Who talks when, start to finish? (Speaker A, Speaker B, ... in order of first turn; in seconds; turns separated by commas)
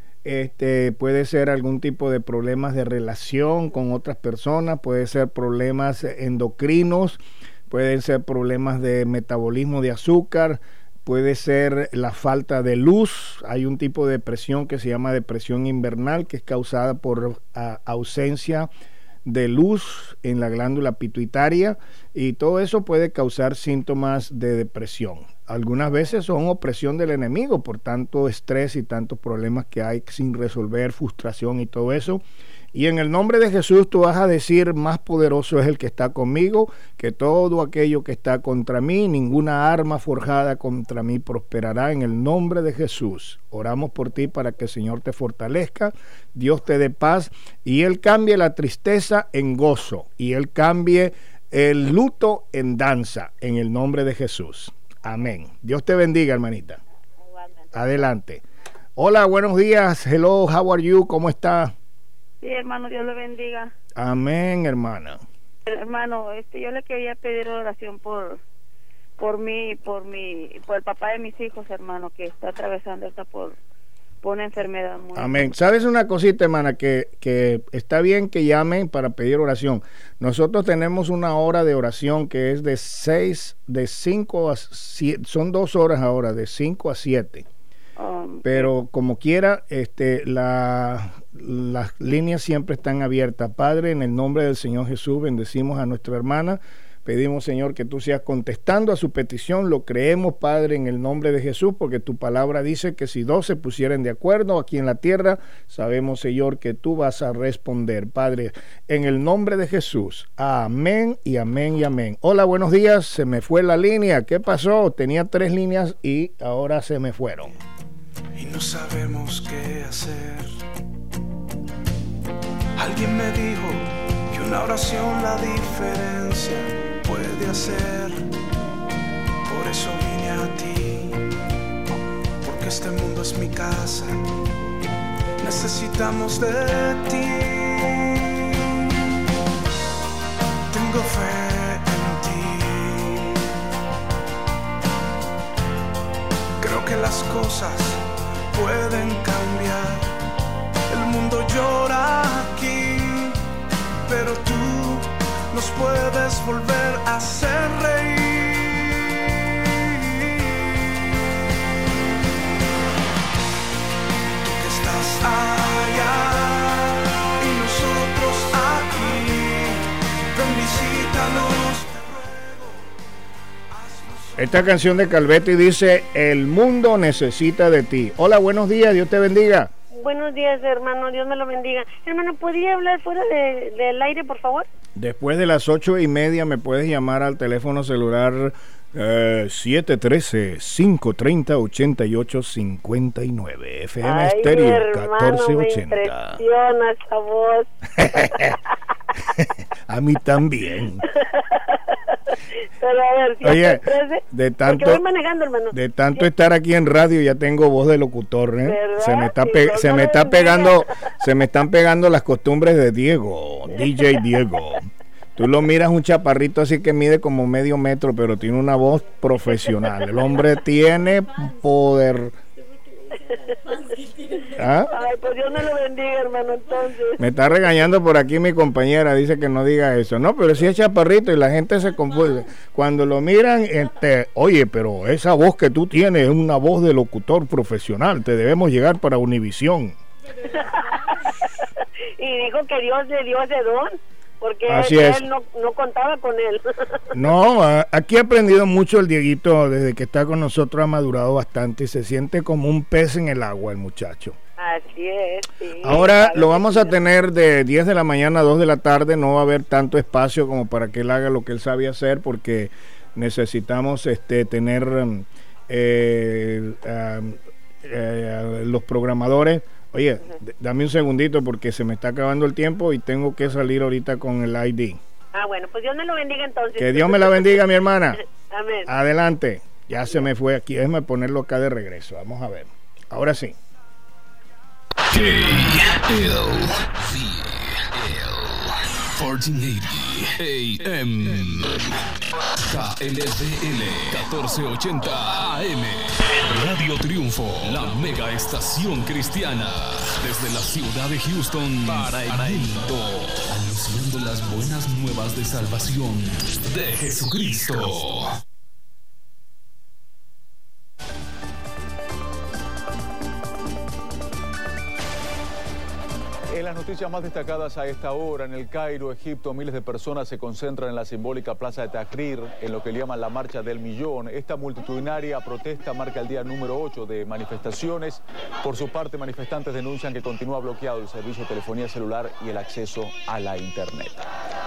Speaker A: 0.2-18.7, Speaker A: 19.2-32.2, Speaker A: 32.7-56.8, Speaker A: 57.7-58.4, Speaker A: 59.0-61.7, Speaker B: 62.4-63.7, Speaker A: 64.0-65.2, Speaker B: 65.7-68.4, Speaker B: 69.2-73.6, Speaker B: 74.2-75.5, Speaker A: 75.1-87.5, Speaker B: 88.0-88.7, Speaker A: 88.4-117.5, Speaker C: 118.4-120.4, Speaker C: 122.8-128.2, Speaker D: 125.4-125.7, Speaker C: 129.5-131.2, Speaker D: 130.4-130.7, Speaker C: 132.4-134.2, Speaker D: 132.8-133.7, Speaker C: 135.4-137.9, Speaker C: 140.7-143.3, Speaker C: 146.6-148.0, Speaker D: 147.0-147.7, Speaker C: 148.5-150.0, Speaker D: 148.9-149.9, Speaker C: 150.9-153.3, Speaker D: 151.3-152.8, Speaker C: 154.1-158.7, Speaker D: 155.8-157.3, Speaker C: 164.5-169.8, Speaker D: 164.7-166.1, Speaker D: 167.6-169.0, Speaker C: 170.3-171.9, Speaker D: 171.2-171.6, Speaker A: 174.4-179.7, Speaker D: 180.2-180.6, Speaker D: 181.5-182.5, Speaker D: 184.1-184.3, Speaker A: 184.9-196.4, Speaker D: 194.1-196.0, Speaker D: 196.6-197.5, Speaker A: 198.0-198.5, Speaker A: 199.9-201.0, Speaker D: 203.1-203.4, Speaker A: 203.4-205.0, Speaker D: 204.9-205.6, Speaker A: 205.7-222.3, Speaker D: 209.8-210.4, Speaker A: 224.5-224.9, Speaker A: 227.2-240.0, Speaker D: 242.2-243.8, Speaker D: 244.5-246.5, Speaker A: 244.7-245.2, Speaker A: 247.1-254.4, Speaker A: 255.8-275.0, Speaker D: 275.4-276.9, Speaker A: 276.8-278.2, Speaker A: 278.9-283.6, Speaker E: 285.1-292.0, Speaker E: 292.6-308.4, Speaker F: 316.5-334.2